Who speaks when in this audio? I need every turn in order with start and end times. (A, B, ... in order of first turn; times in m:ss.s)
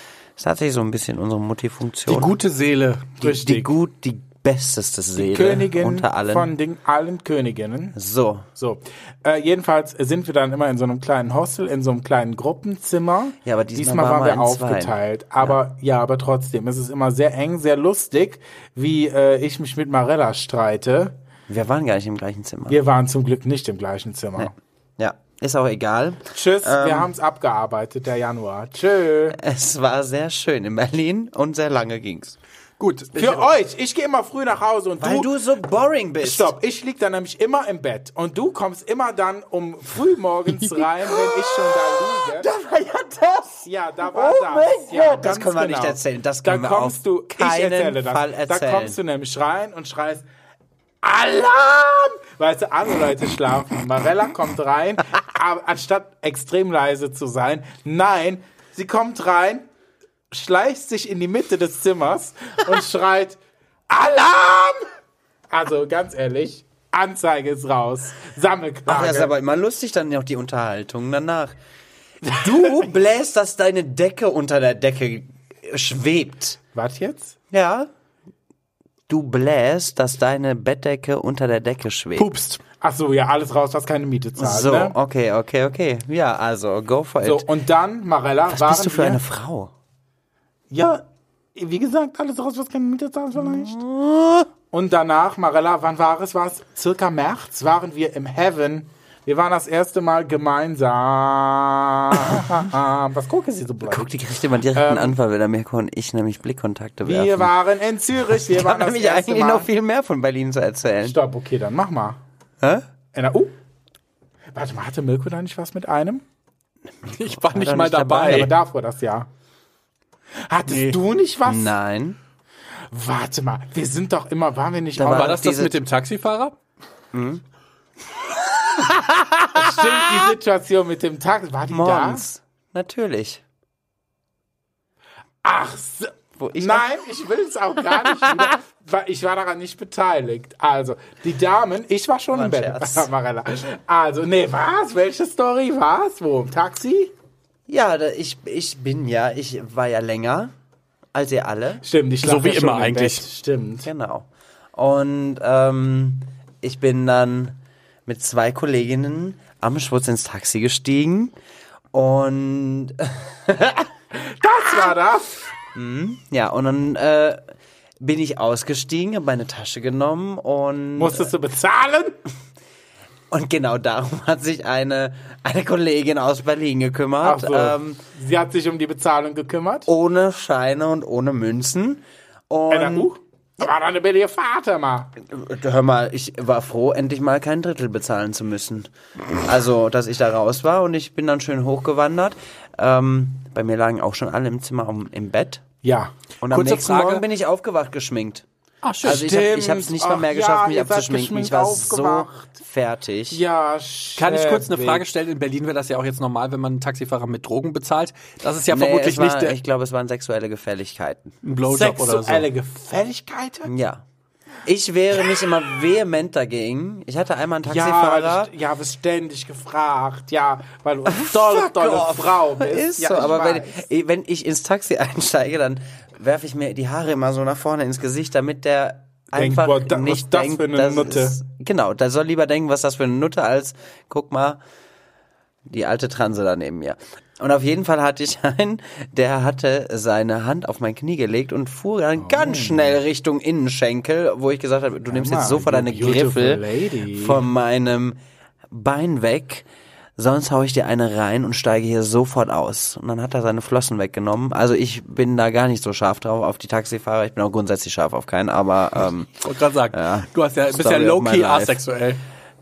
0:00.4-0:02.3 A
0:02.1-0:03.2 B
0:03.2-0:03.7 C
0:03.2-0:06.5 A
0:05.2-0:08.0 C
0:08.0-0:08.5 A
0:08.6-0:21.2 C
0:13.4-0:15.6 A
0:21.5-0:22.8 A
0:22.7-0:24.5 C
0:24.4-0:27.1 A
0:26.3-0:29.4 C
0:29.3-0:32.4 A
0:32.8-0:33.5 B
0:33.2-0:35.3 C
0:35.0-0:36.5 A
0:36.2-0:42.5 C
0:41.3-0:49.0 A
0:43.6-0:50.2 C
0:51.0-0:59.7 C
1:00.3-1:03.4 C
1:03.9-1:04.8 C
1:05.5-1:09.3 C
1:08.9-1:11.6 A
1:12.3-1:16.6 A
1:16.7-1:17.4 C
1:17.5-1:17.9 A
1:19.1-1:22.3 A
1:22.2-1:22.6 B
1:22.8-1:25.0 C
1:24.4-1:27.5 A
1:27.2-1:29.2 C
1:28.5-1:29.7 A
1:30.7-1:31.0 C
1:31.6-1:33.8 C
1:33.4-1:34.5 A
1:34.7-1:44.1 C
1:43.9-1:47.5 A
1:44.8-1:45.2 C
1:47.0-1:49.7 C
1:48.2-1:51.2 A
1:51.0-1:52.2 C
1:53.1-1:53.6 C
1:54.5-1:56.2 C
1:57.1-1:58.5 A
1:57.1-1:58.5 B
1:58.2-1:59.3 C
2:00.5-2:01.8 C
2:00.7-2:01.0 B
2:01.4-2:02.2 A
2:02.9-2:05.4 C
2:05.0-2:05.8 A
2:05.0-2:06.5 B
2:07.1-2:07.4 A
2:08.6-2:10.3 A
2:09.5-2:12.2 C
2:11.7-2:13.4 A
2:15.4-2:27.1 C
2:16.4-2:16.9 A
2:18.0-2:18.5 A
2:22.3-2:23.1 A
2:27.7-2:30.5 A
2:31.1-2:31.8 A
2:31.8-2:33.9 C
2:32.2-2:33.3 B
2:33.8-2:41.4 A
2:41.9-2:43.9 A
2:44.1-2:45.4 C
2:45.8-2:47.4 A
2:48.0-2:51.3 A
2:51.0-2:52.2 C
2:53.3-2:58.0 A
2:57.2-2:59.9 C
2:59.9-3:03.1 A
3:02.7-3:05.1 C
3:05.2-3:15.6 A
3:15.8-3:16.1 C
3:16.4-3:18.4 A
3:16.5-3:17.2 B
3:18.8-3:19.2 B
3:19.0-3:22.6 C
3:19.0-3:23.4 A
3:23.3-3:25.0 C
3:24.2-3:29.6 B
3:28.7-3:31.4 A
3:31.4-3:32.5 B
3:31.7-3:33.7 C
3:33.7-3:34.0 A
3:34.6-3:38.5 A
3:37.6-3:43.8 C
3:41.1-3:54.6 A
3:49.3-3:51.4 C
3:55.7-4:08.2 A
4:02.2-4:03.0 C
4:05.1-4:07.4 C
4:08.7-4:09.7 A
4:10.2-4:21.8 A
4:19.4-4:22.2 B